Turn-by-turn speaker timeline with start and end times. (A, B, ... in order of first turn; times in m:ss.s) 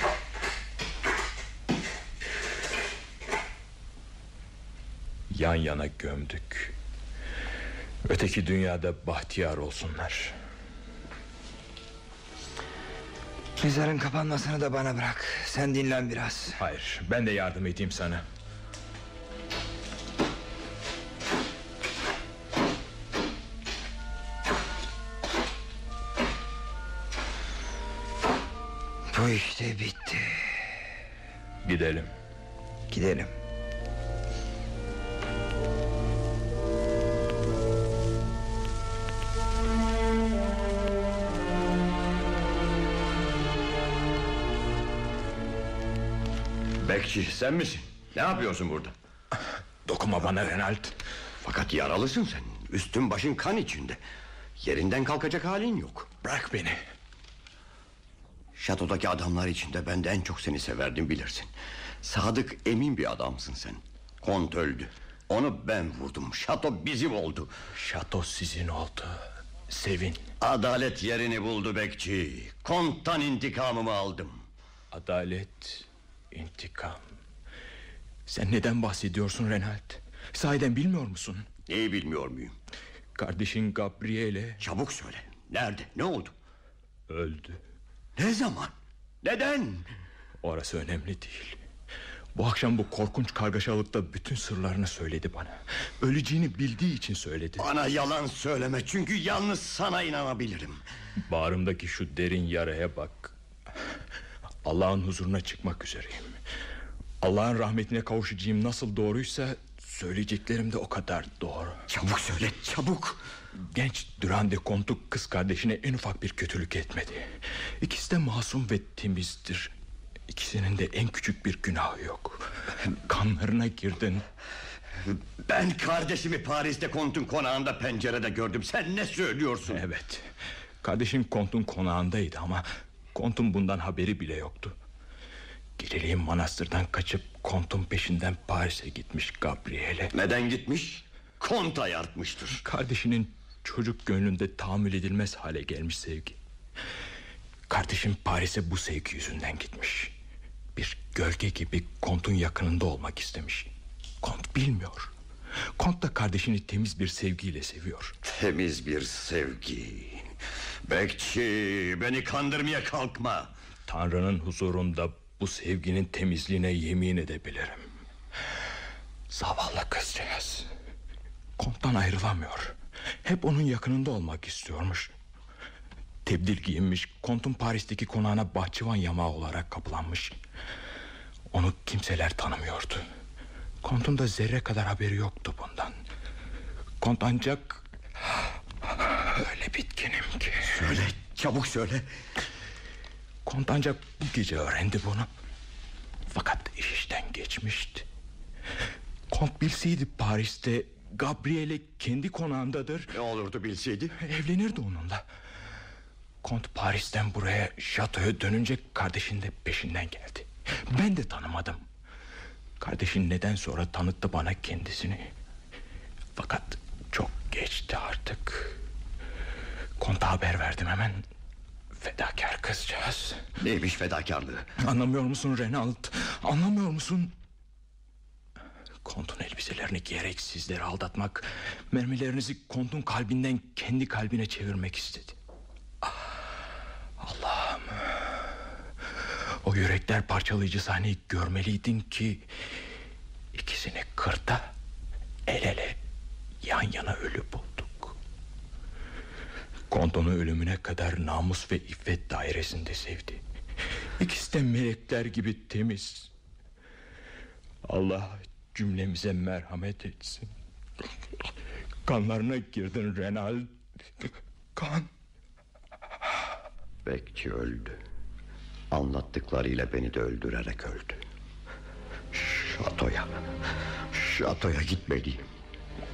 0:05.3-0:06.8 A
0:08.1-0:10.4 A
0:13.6-0:16.6 B
0:16.6-0:18.2 A
0:29.1-0:30.7 B
0:31.6-0:32.1 A
0:32.9-0:33.3 B
0:46.8-0:48.9 C
0:49.8-0:51.0 A
0:51.4-0:54.0 C
0:54.6-0:56.1 C
0:56.2-0:56.8 A
0:58.6-1:01.5 C
1:02.0-1:07.5 C
1:07.8-1:10.3 A
1:10.4-1:14.4 C
1:14.9-1:17.1 A
1:18.3-1:21.5 A
1:21.7-1:22.6 C
1:23.2-1:24.6 A
1:24.6-1:26.4 C
1:27.1-1:27.6 A
1:28.2-1:29.9 C
1:30.4-1:31.6 A
1:32.4-1:37.7 A
1:37.6-1:40.8 C
1:41.3-1:43.3 A
1:44.6-1:46.4 A
1:47.2-1:51.8 A
1:51.9-1:53.2 C
1:53.7-1:59.7 A
2:00.3-2:04.2 A
2:05.1-2:09.8 C
2:09.7-2:10.3 A
2:10.8-2:14.8 A
2:15.8-2:20.1 A
2:20.1-2:22.6 C
2:22.6-2:26.4 A
2:27.7-2:30.2 A
2:30.8-2:33.7 A
2:34.2-2:35.1 A
2:35.8-2:38.2 A
2:38.2-2:40.3 C
2:40.9-2:43.5 C
2:43.9-2:47.9 A
2:49.3-2:50.7 A
2:51.6-2:55.1 A
2:56.2-3:00.4 A
3:01.5-3:03.0 A
3:03.8-3:06.0 A
3:07.0-3:10.8 A
3:10.6-3:12.1 C
3:13.4-3:15.3 A
3:16.3-3:18.1 A
3:19.3-3:23.1 A
3:23.1-3:24.2 C
3:24.2-3:25.2 A
3:26.4-3:31.8 A
3:32.8-3:35.3 A
3:36.4-3:38.8 A
3:40.0-3:41.2 A
3:42.0-3:43.4 A
3:43.6-3:44.7 C
3:44.8-3:47.3 A
3:49.0-3:55.4 A
3:56.0-3:56.3 A
3:57.2-3:58.4 A
3:59.6-4:02.5 A
4:03.5-4:04.7 A
4:05.5-4:06.0 A
4:06.6-4:08.2 A
4:09.9-4:13.4 A
4:14.2-4:16.3 A
4:17.9-4:20.5 A
4:22.0-4:25.1 A
4:27.0-4:28.0 C
4:28.9-4:31.2 C
4:32.3-4:33.3 C
4:34.1-4:35.4 C